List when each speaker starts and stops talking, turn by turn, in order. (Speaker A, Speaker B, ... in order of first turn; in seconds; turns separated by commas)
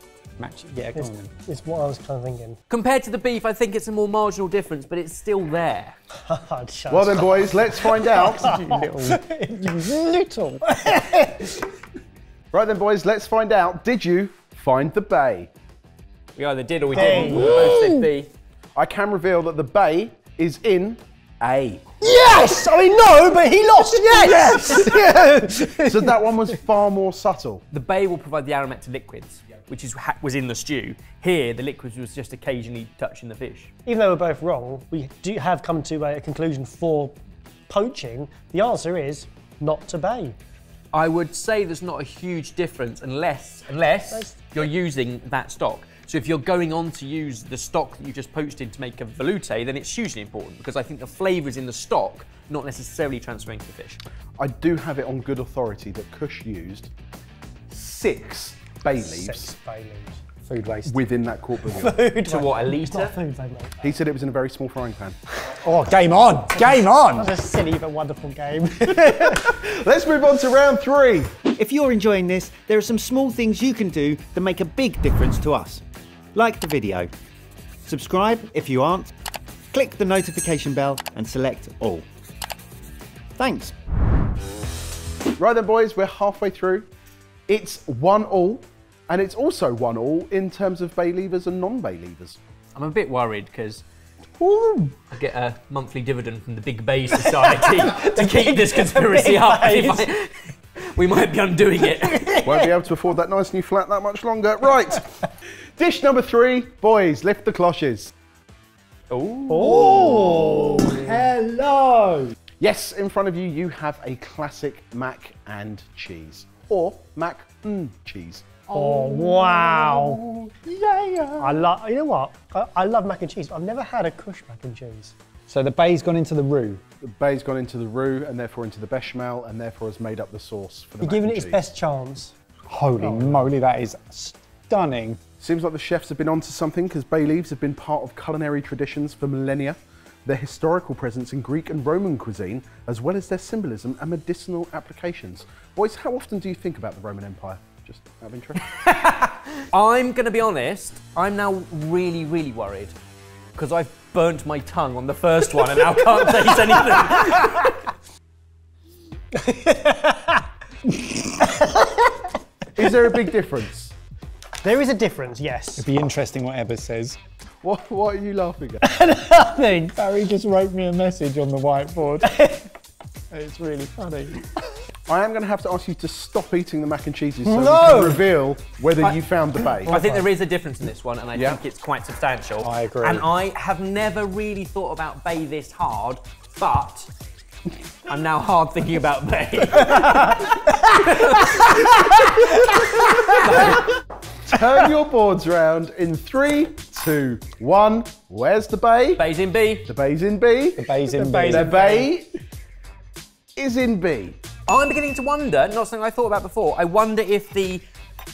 Speaker A: 0.4-1.3, Speaker B: 1.0-2.6, Speaker C: 2.7-6.0, Speaker B: 6.2-9.9, Speaker D: 6.9-8.6, Speaker A: 8.2-10.6, Speaker B: 10.7-11.7, Speaker D: 12.5-15.5, Speaker C: 16.4-18.3, Speaker B: 16.9-18.0, Speaker D: 17.2-17.6, Speaker D: 18.8-21.9, Speaker B: 22.0-26.2, Speaker C: 24.2-24.8, Speaker D: 25.8-27.6, Speaker C: 27.7-33.7, Speaker B: 33.9-37.1, Speaker B: 37.7-40.4, Speaker C: 40.9-54.0, Speaker B: 44.1-44.6, Speaker D: 54.4-56.9, Speaker D: 57.7-59.5, Speaker B: 58.9-60.2, Speaker A: 60.5-61.0, Speaker D: 60.9-62.0, Speaker B: 61.6-63.8, Speaker C: 62.2-63.1, Speaker D: 63.8-65.2, Speaker A: 65.4-67.3, Speaker B: 67.1-69.5, Speaker D: 69.1-71.4, Speaker E: 71.6-75.8, Speaker E: 76.3-77.1, Speaker E: 77.9-79.1, Speaker E: 79.7-82.0, Speaker E: 83.4-83.7, Speaker D: 85.4-86.9, Speaker D: 87.5-92.4, Speaker C: 92.8-93.8, Speaker B: 94.5-94.8, Speaker C: 95.1-102.4, Speaker B: 97.2-100.1, Speaker B: 102.1-102.7, Speaker D: 102.4-108.1, Speaker C: 109.1-109.8, Speaker B: 109.5-110.9, Speaker A: 109.5-112.3, Speaker D: 112.6-118.6, Speaker A: 118.7-121.6, Speaker B: 118.7-120.2, Speaker B: 121.4-125.1, Speaker A: 125.5-126.8, Speaker D: 127.0-131.6, Speaker B: 131.0-132.3, Speaker A: 132.7-135.2, Speaker B: 133.0-133.4, Speaker D: 135.4-148.6, Speaker C: 148.7-152.9, Speaker C: 153.6-157.8, Speaker B: 159.3-160.5, Speaker B: 161.2-162.3, Speaker D: 162.8-163.9, Speaker B: 164.6-165.8, Speaker A: 165.8-167.2, Speaker D: 167.6-168.8, Speaker B: 168.8-169.9, Speaker A: 169.8-172.5, Speaker B: 172.3-172.7, Speaker A: 173.3-174.5, Speaker D: 175.1-179.9, Speaker B: 177.4-178.2, Speaker C: 179.9-187.1, Speaker A: 179.9-180.2, Speaker A: 182.6-183.3, Speaker C: 188.1-193.8, Speaker D: 194.5-199.2, Speaker C: 199.2-199.9, Speaker D: 199.9-200.9, Speaker A: 200.8-201.7, Speaker B: 201.1-202.1, Speaker D: 201.5-202.3, Speaker D: 203.6-204.4, Speaker C: 204.7-207.8